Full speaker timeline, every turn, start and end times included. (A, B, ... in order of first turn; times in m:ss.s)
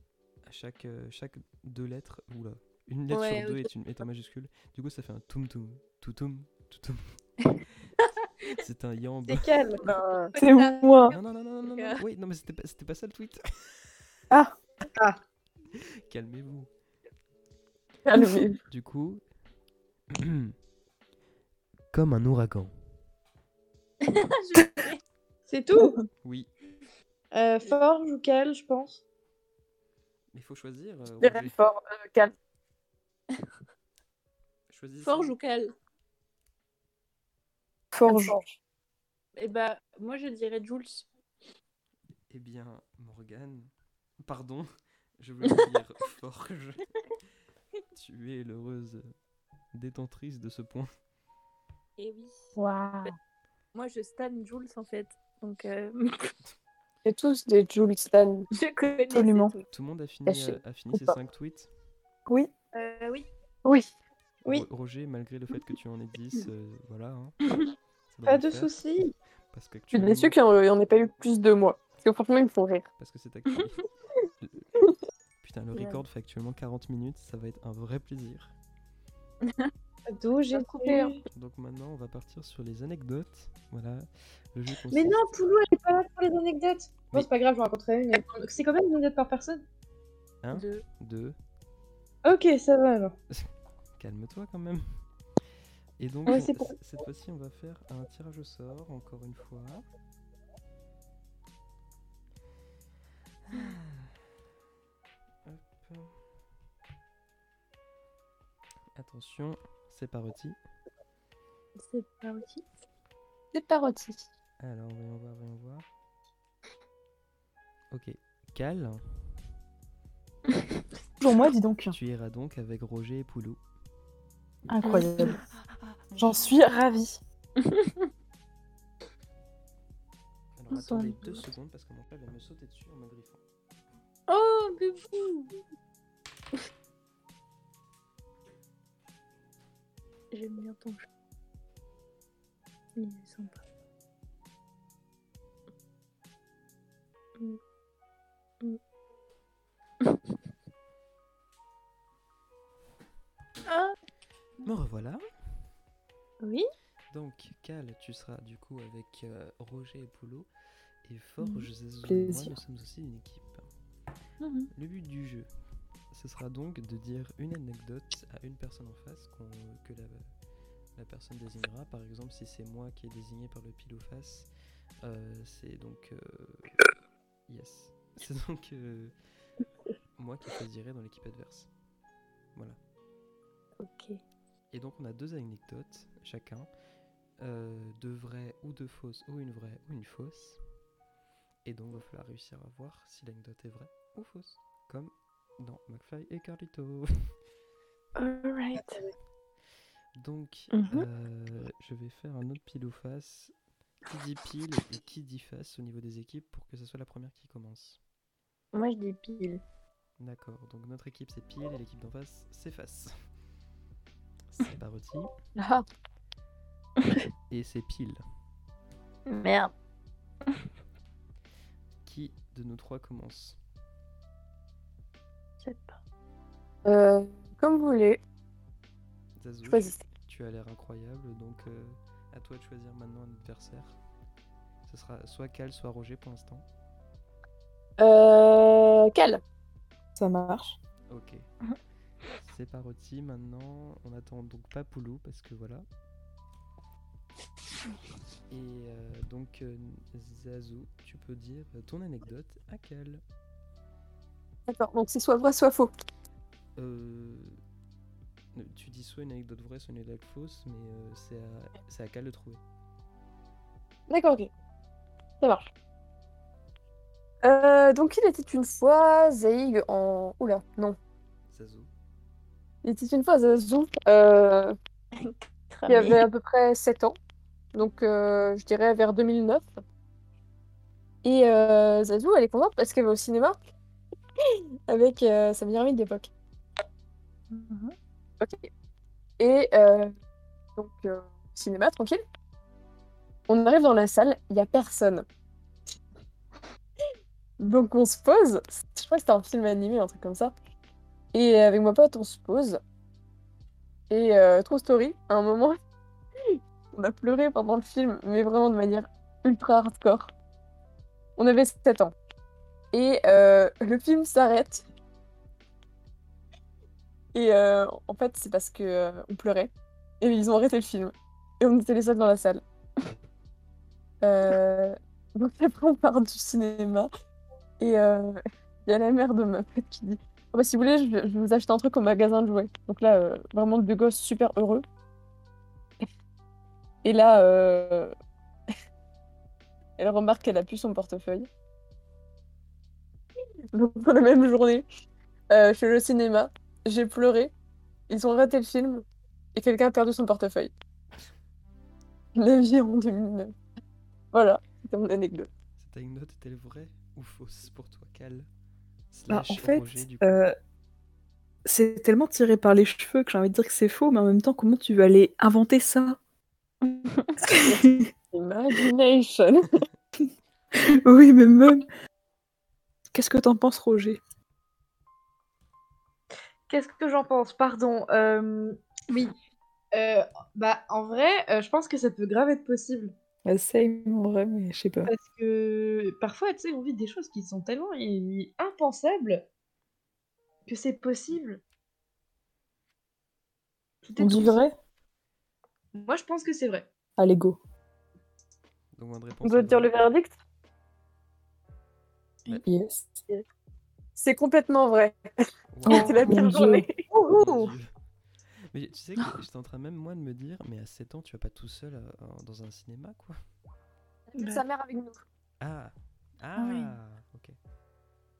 0:00.4-0:07.0 A
0:03.1-0:03.7 B
0:08.0-0:08.5 B
0:08.4-0:09.5 A
0:09.3-0:09.8 C
0:09.8-0:10.3 D
0:09.8-0:11.2 B
0:10.4-0:11.2 E
0:11.1-0:13.9 A
0:11.7-0:12.0 B
0:15.8-0:16.7 A
0:18.0-0:18.6 D
0:18.7-0:19.2 A
0:20.1-0:20.5 A
0:21.9-0:22.7 A
0:24.0-0:25.0 B
0:25.5-0:26.0 C
0:26.2-0:26.5 A
0:27.3-0:29.0 C
0:30.3-0:31.6 A
0:31.2-0:32.3 D
0:34.7-0:35.4 A
0:35.0-0:35.7 B
0:37.9-0:38.4 E
0:39.4-0:41.1 B
0:42.3-0:43.7 A
0:44.2-0:44.7 A
0:45.2-0:46.8 A
0:47.9-0:49.1 A
0:49.7-0:50.9 A
0:52.0-0:52.5 B
0:52.6-0:53.1 D
0:53.7-0:56.5 B
0:57.0-0:58.5 D
0:58.5-0:59.7 B
0:59.1-0:59.5 E
0:59.7-1:01.7 A
1:00.3-1:01.0 D
1:02.7-1:03.3 B
1:03.6-1:03.9 D
1:04.4-1:07.4 A
1:08.1-1:08.7 A
1:08.3-1:09.1 C
1:09.5-1:10.4 A
1:09.9-1:12.9 D
1:13.0-1:13.9 A
1:15.4-1:18.5 A
1:15.7-1:16.0 B
1:19.4-1:19.7 B
1:20.1-1:21.2 C
1:20.6-1:21.1 D
1:21.3-1:25.3 A
1:24.9-1:29.6 C
1:30.4-1:31.4 A
1:30.5-1:30.8 B
1:32.2-1:33.2 C
1:34.0-1:34.8 A
1:36.0-1:39.8 A
1:36.3-1:36.6 C
1:43.5-1:44.1 A
1:45.4-1:46.2 A
1:49.0-1:50.6 A
1:51.8-1:52.6 B
1:53.5-1:54.3 D
1:54.6-1:55.9 A
1:57.9-1:59.0 A
2:01.2-2:02.0 E
2:01.9-2:03.6 A
2:04.7-2:05.4 E
2:04.8-2:05.4 B
2:05.6-2:06.2 A
2:06.2-2:07.2 E
2:07.6-2:08.1 B
2:10.6-2:13.4 A
2:10.7-2:11.4 B
2:14.3-2:15.6 B
2:20.3-2:21.1 B
2:23.0-2:23.6 B
2:33.7-2:34.0 B
2:34.6-2:35.2 A
2:36.4-2:36.7 B
2:37.1-2:40.5 A
2:41.0-2:43.7 A
2:42.1-2:42.5 E
2:44.4-2:44.7 B
2:44.7-2:45.5 A
2:46.1-2:50.2 A
2:51.0-2:54.5 A
2:55.0-2:56.8 A
2:57.5-2:59.1 A
3:00.2-3:01.7 A
3:03.8-3:04.2 B
3:04.7-3:06.7 A
3:07.4-3:10.6 A
3:11.6-3:17.3 A
3:18.2-3:19.0 B
3:20.2-3:23.5 A
3:20.7-3:21.1 B
3:24.1-3:28.0 A
3:28.7-3:29.6 B
3:30.2-3:33.1 A
3:34.5-3:35.3 A
3:35.6-3:35.8 D
3:37.5-3:38.2 A
3:39.3-3:39.7 B
3:42.0-3:43.6 A
3:45.6-3:46.0 B
3:46.8-3:48.2 D
3:49.4-3:54.0 A
3:49.6-3:50.0 D
3:54.9-3:56.6 A
3:58.0-3:59.4 D
4:00.2-4:00.8 E
4:01.1-4:01.4 A
4:02.4-4:05.9 A
4:08.5-4:13.2 A
4:14.7-4:15.9 D
4:16.8-4:17.6 A
4:18.5-4:22.6 A
4:24.1-4:24.5 D
4:25.4-4:25.7 D
4:27.4-4:31.0 D
4:31.5-4:31.9 A
4:32.8-4:34.8 D
4:35.1-4:36.2 B
4:35.9-4:37.1 D
4:37.7-4:39.8 D
4:41.2-4:43.6 D
4:44.9-4:46.3 D
4:47.5-4:48.0 B
4:48.4-4:48.7 D
4:49.4-4:50.1 D
4:50.8-4:52.2 D
4:53.5-4:55.2 D
4:57.6-5:00.5 D
5:01.3-5:02.8 D
5:04.1-5:05.8 D
5:06.4-5:10.3 D
5:11.4-5:12.1 D
5:12.9-5:14.9 D
5:17.3-5:22.6 D
5:24.2-5:27.1 D
5:27.8-5:34.8 D
5:37.0-5:38.1 D
5:40.0-5:41.5 D
5:43.7-5:44.8 D
5:45.5-5:47.5 D
5:48.1-5:49.0 D
5:49.6-5:50.7 D
5:52.4-5:53.5 D
5:54.3-5:55.5 D
5:55.8-5:58.5 A
5:59.1-6:00.4 A
5:59.3-6:00.5 E
6:01.6-6:06.2 E
6:06.8-6:07.4 B
6:07.4-6:08.1 E
6:07.6-6:09.8 D
6:10.8-6:11.9 E
6:13.1-6:14.2 E
6:16.7-6:19.3 C
6:19.9-6:23.1 C
6:23.4-6:25.1 E
6:25.1-6:29.4 C
6:30.7-6:31.6 C
6:34.0-6:34.6 C
6:34.2-6:34.8 E
6:36.0-6:36.9 C
6:37.2-6:37.6 E
6:38.9-6:39.9 A
6:39.4-6:40.4 D
6:42.5-6:43.2 E
6:44.2-6:45.3 D
6:45.7-6:46.3 A
6:45.8-6:46.8 E
6:45.9-6:47.0 D
6:47.1-6:47.8 C
6:47.2-6:47.9 A
6:48.7-6:53.4 A
6:54.3-6:55.2 D
6:55.6-6:57.6 A
6:56.6-6:56.9 B